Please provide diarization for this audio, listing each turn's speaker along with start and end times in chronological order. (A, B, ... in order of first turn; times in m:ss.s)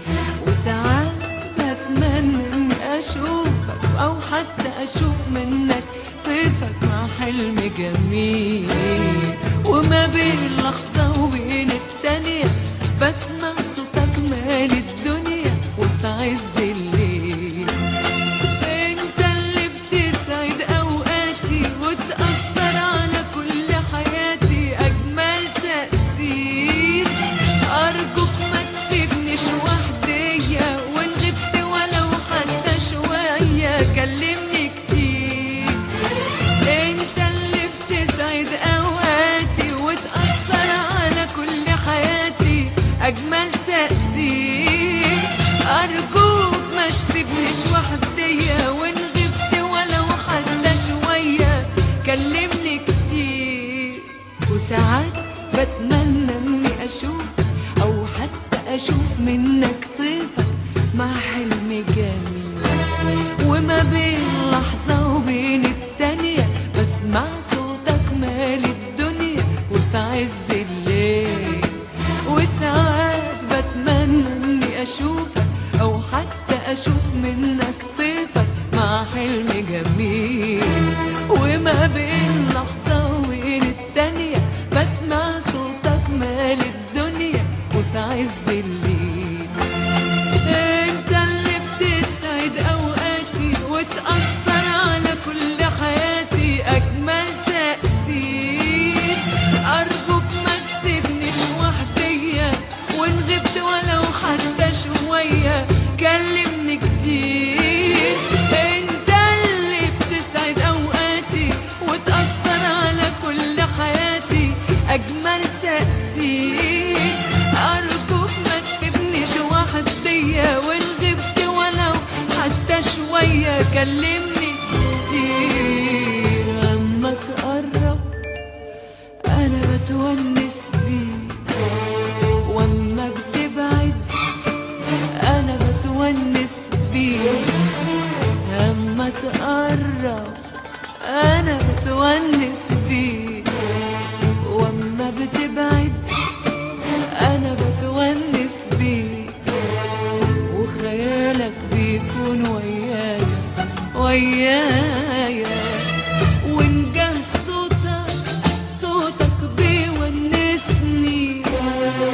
0:00.4-0:17.8 A
0:18.6-0:35.8 A
0:36.6-1:02.8 A
1:03.4-1:29.6 A
1:30.4-2:08.2 A
2:09.3-2:11.4 A
2:12.4-2:14.0 A
2:15.2-2:17.6 A
2:18.4-2:20.4 A
2:21.0-2:23.5 A
2:24.4-2:26.1 A
2:27.1-2:29.4 A
2:30.5-2:35.8 A
2:36.4-2:41.6 A